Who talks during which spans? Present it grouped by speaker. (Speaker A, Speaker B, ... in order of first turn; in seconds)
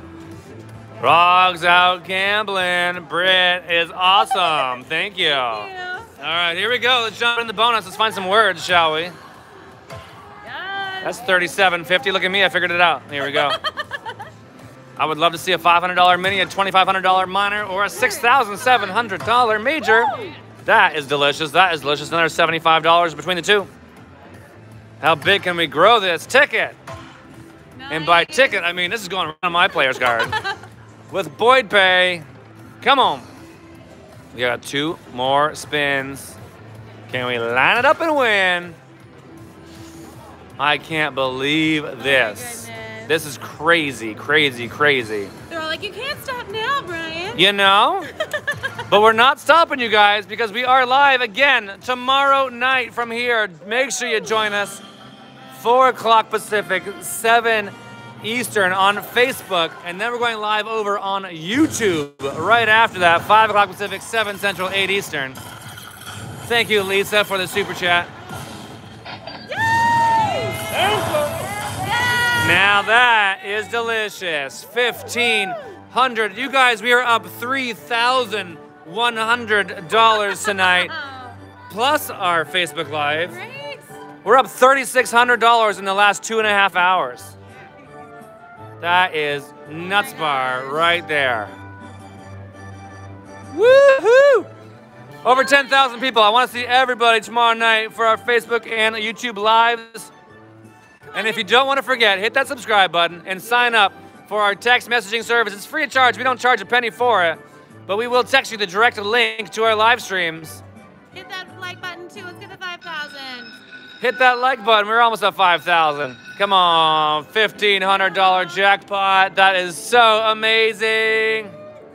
Speaker A: 1.0-5.7, 6.2-9.2, 11.0-13.6, 15.0-23.7, 25.0-26.8, 27.9-30.4, 31.1-32.3, 32.8-33.3, 34.3-36.4, 37.1-38.8, 40.6-45.3, 47.4-48.1, 48.9-54.8, 55.5-65.4, 66.4-68.1, 70.6-71.5, 72.4-80.9, 81.7-83.4, 84.2-87.3, 88.8-91.5, 93.5-94.5, 95.2-100.1, 101.1-110.6, 114.0-121.5
Speaker B: 4.3-6.1, 10.4-11.5, 13.3-13.7, 17.9-18.4, 19.9-20.3, 27.8-28.6, 29.9-30.5, 42.0-43.2, 45.5-47.5, 69.8-70.7, 71.6-72.7, 80.0-81.4, 83.2-83.9, 89.8-90.9, 95.3-96.1, 101.0-101.5, 111.1-113.5, 118.0-118.7